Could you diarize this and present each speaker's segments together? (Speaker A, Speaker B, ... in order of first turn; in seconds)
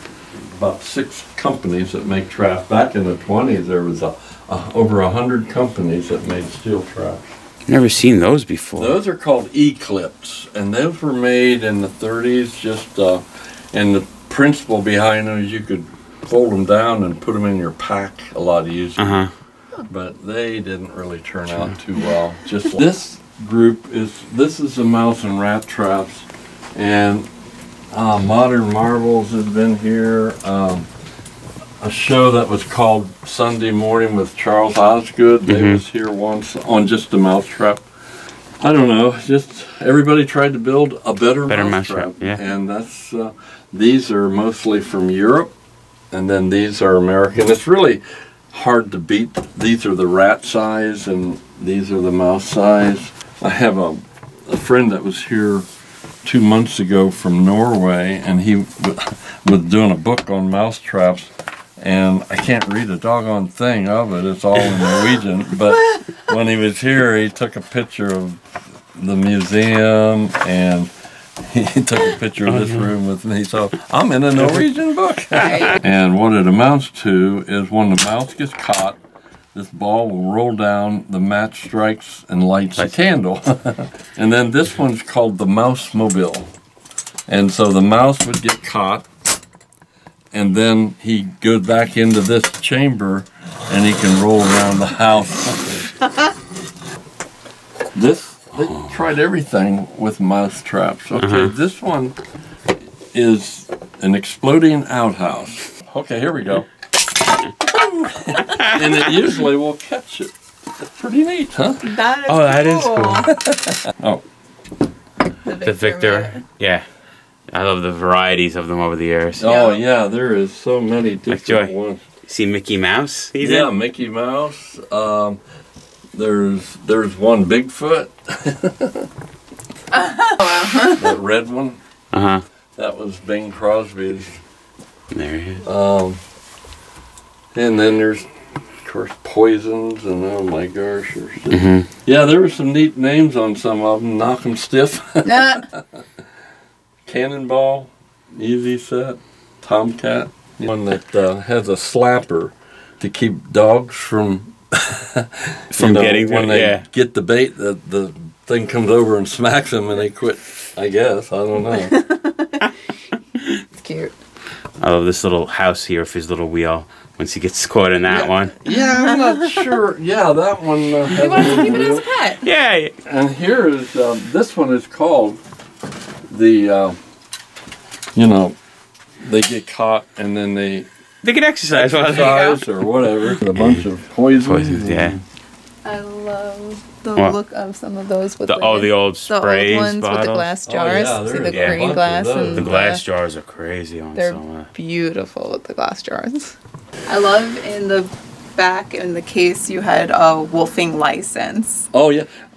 Speaker A: 0.3-7.3, 8.8-19.2, 19.9-27.3, 27.9-30.9, 31.8-37.9, 38.6-45.5, 46.1-55.6, 56.2-68.4, 68.9-79.0, 79.5-86.5, 87.3-89.1, 90.3-96.0, 97.9-102.2, 103.1-106.7, 107.6-112.0, 113.4-114.2, 119.4-122.0, 123.3-125.4, 126.1-129.1, 130.9-131.8, 132.8-134.4, 135.6-136.2, 137.5-138.3, 138.8-146.0, 147.0-161.9, 168.1-172.1, 173.0-175.4, 176.3-177.0, 178.1-178.6, 179.2-180.9, 181.7-185.2, 190.6-192.7, 201.9-202.3
Speaker B: 7.7-9.0, 19.0-19.3, 35.5-35.8, 41.5-42.4, 72.5-72.9, 101.2-101.5, 112.3-113.3, 115.6-116.8, 117.5-119.4, 121.3-121.7, 122.2-123.7, 132.1-132.4, 135.1-135.6, 141.5-141.9, 155.7-156.8, 164.8-168.5, 171.4-171.8, 172.4-172.9, 181.2-182.6, 184.4-185.2, 188.4-190.5, 191.5-192.0, 192.5-194.7
Speaker C: 111.8-113.3, 115.4-116.4, 119.4-119.8, 129.9-131.0, 145.2-145.6, 161.7-162.7, 163.8-164.1, 168.7-169.7, 171.1-172.4, 185.8-193.0, 194.1-196.5, 197.1-201.9